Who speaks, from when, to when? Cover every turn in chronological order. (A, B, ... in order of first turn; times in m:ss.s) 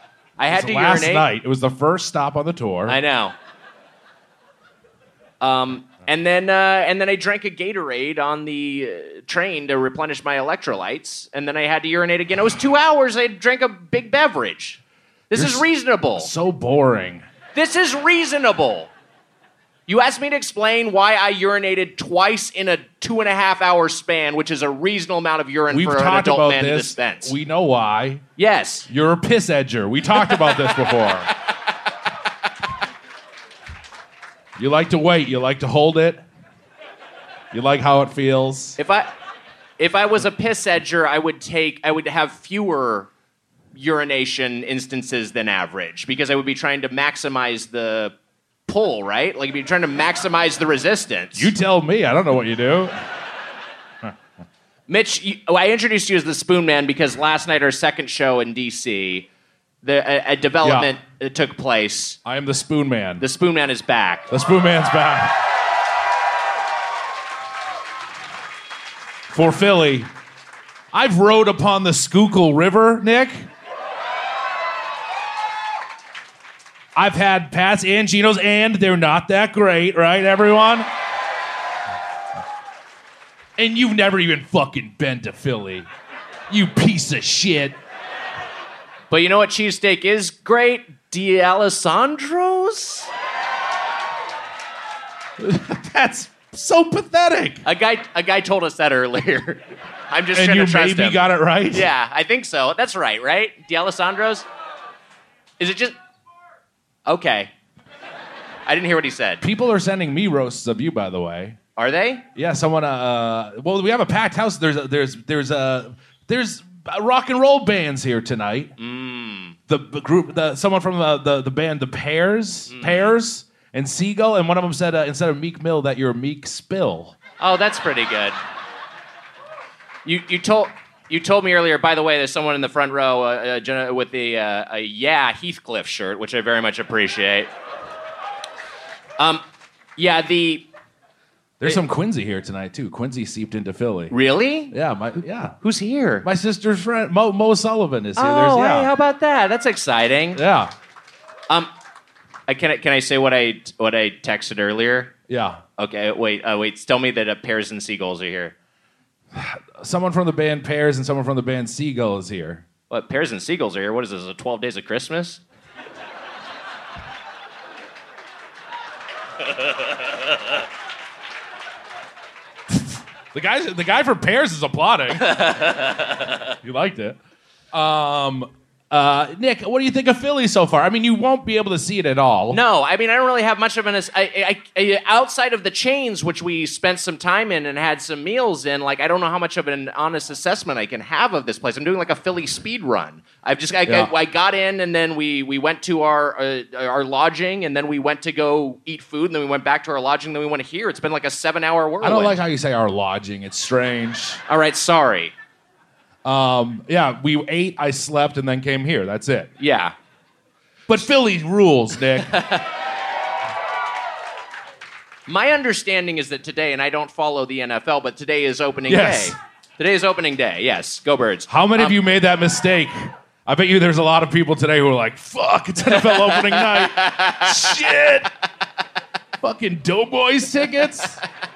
0:00.4-0:01.3 A
0:00.5-0:03.0 B
0:02.9-0:03.4 A
0:05.4-0:14.8 A
0:15.3-0:16.3 A
0:15.3-0:15.7 B
0:16.2-0:17.2 B
0:17.6-0:18.9 A
0:19.9-0:27.3 A
0:25.7-0:28.2 B
0:28.4-0:28.9 A
0:28.9-0:31.3 B
0:30.2-0:30.8 A
0:34.6-0:36.2 B
0:37.5-0:38.8 B
0:38.8-0:39.1 A
0:39.8-0:43.1 A
0:43.7-0:48.1 A
0:48.7-0:51.5 A
0:51.4-0:52.9 B
0:54.9-0:59.3 A
0:59.8-1:02.2 A
1:00.6-1:00.9 B
1:02.2-1:03.2 B
1:03.2-1:04.3 A
1:04.3-1:05.4 B
1:09.3-1:10.1 B
1:10.9-1:13.5 B
1:17.0-1:20.9 B
1:23.6-1:25.9 B
1:26.5-1:27.8 B
1:29.1-1:33.1 A
1:35.4-1:37.6 B
1:37.6-1:44.5 A
1:40.3-1:41.9 B
1:45.6-1:46.0 A
1:47.1-1:47.5 A
1:48.7-1:49.4 A
1:49.4-1:51.6 B
1:51.8-1:52.2 A
1:52.4-1:58.7 B
1:58.8-1:59.6 A
1:59.7-2:07.2 B
2:02.7-2:03.1 A
2:07.4-2:08.4 A
2:10.0-2:17.5 A
2:19.2-2:19.4 A
2:20.0-2:20.7 A
2:21.6-2:24.2 B
2:24.1-2:24.7 A
2:24.7-2:25.6 B
2:25.6-2:26.3 A
2:26.2-2:28.9 B
2:28.2-2:30.4 A
2:30.4-2:30.7 B
2:32.5-2:35.1 A
2:35.3-2:35.6 B
2:35.8-2:38.5 A
2:39.3-2:42.6 B
2:42.9-2:45.4 A
2:52.7-2:55.4 B
2:55.2-2:56.1 A
2:56.6-2:57.2 B
2:57.7-3:02.6 B
3:02.5-3:22.4 A
3:13.9-3:14.1 B
3:22.0-3:24.4 B
3:24.5-3:25.3 A
3:26.2-3:29.5 B
3:29.6-3:30.0 A
3:30.9-3:32.3 B
3:32.3-3:32.6 A
3:35.3-3:42.0 A
3:38.9-3:39.4 B
3:41.5-3:48.3 B
3:45.9-3:47.7 A
3:49.4-3:51.2 B